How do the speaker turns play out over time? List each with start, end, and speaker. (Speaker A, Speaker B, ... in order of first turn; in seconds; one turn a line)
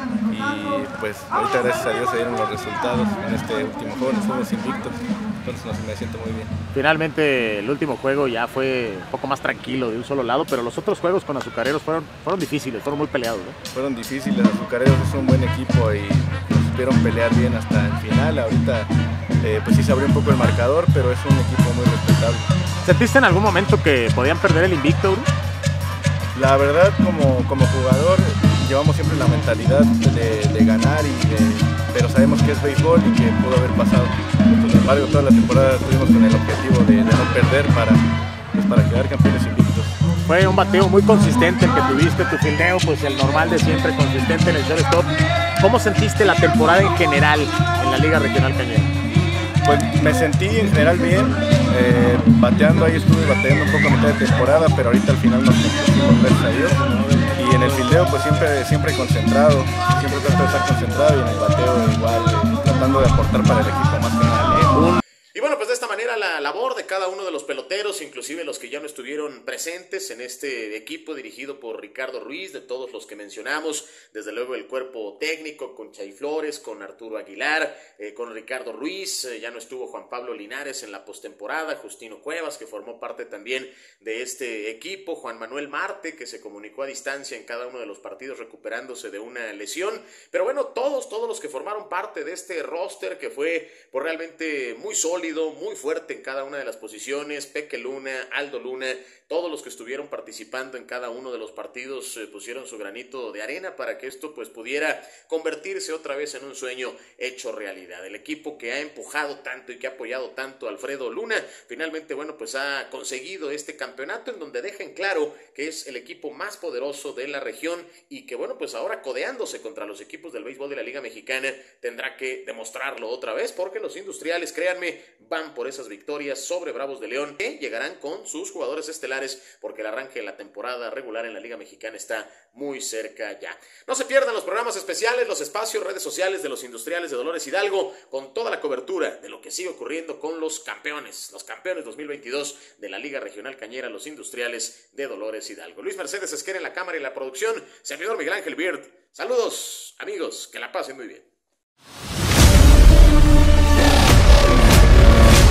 Speaker A: 0.3-6.5
Speaker B: 6.7-13.6
Speaker A: 13.7-18.9
Speaker A: 19.4-22.5
Speaker B: 22.8-25.3
Speaker A: 26.3-38.0
Speaker A: 38.5-40.0
Speaker B: 40.2-48.9
Speaker A: 49.6-64.7
Speaker C: 64.7-151.2